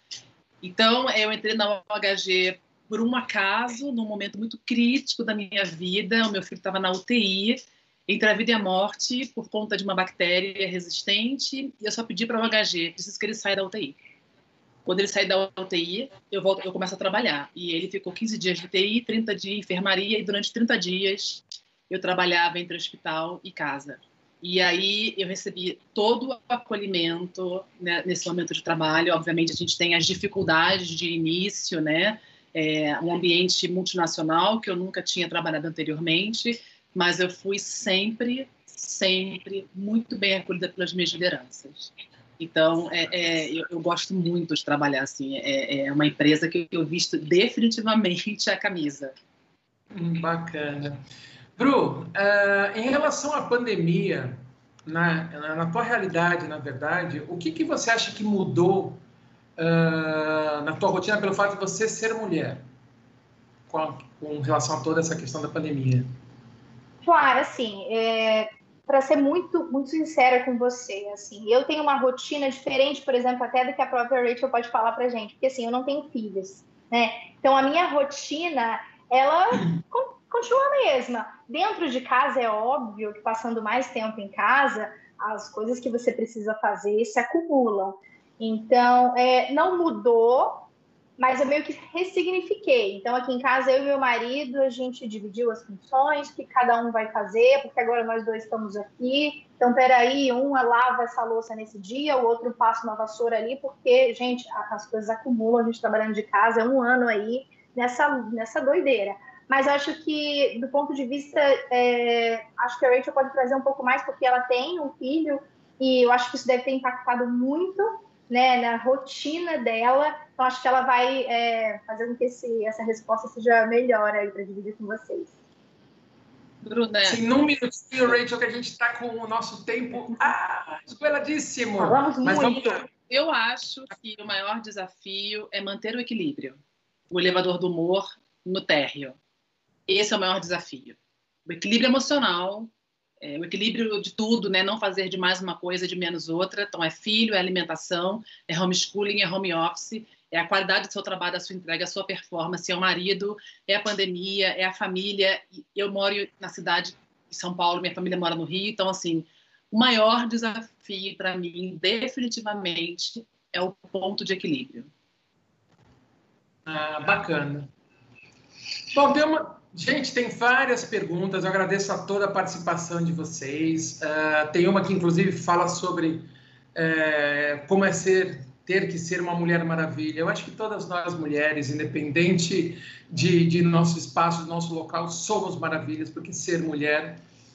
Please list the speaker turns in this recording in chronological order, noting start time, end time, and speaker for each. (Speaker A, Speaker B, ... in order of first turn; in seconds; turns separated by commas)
Speaker A: 0.6-13.9, Speaker A: 14.8-49.1, Speaker B: 49.9-51.0, Speaker B: 51.6-59.0, Speaker B: 59.6-62.6, Speaker B: 63.7-66.0, Speaker C: 67.0-90.7, Speaker C: 91.2-125.3, Speaker A: 126.6-127.2, Speaker B: 127.0-132.9, Speaker C: 131.8-132.8, Speaker A: 133.1-136.6, Speaker A: 137.1-139.2, Speaker A: 139.9-164.9, Speaker B: 166.7-167.7, Speaker B: 168.9-187.2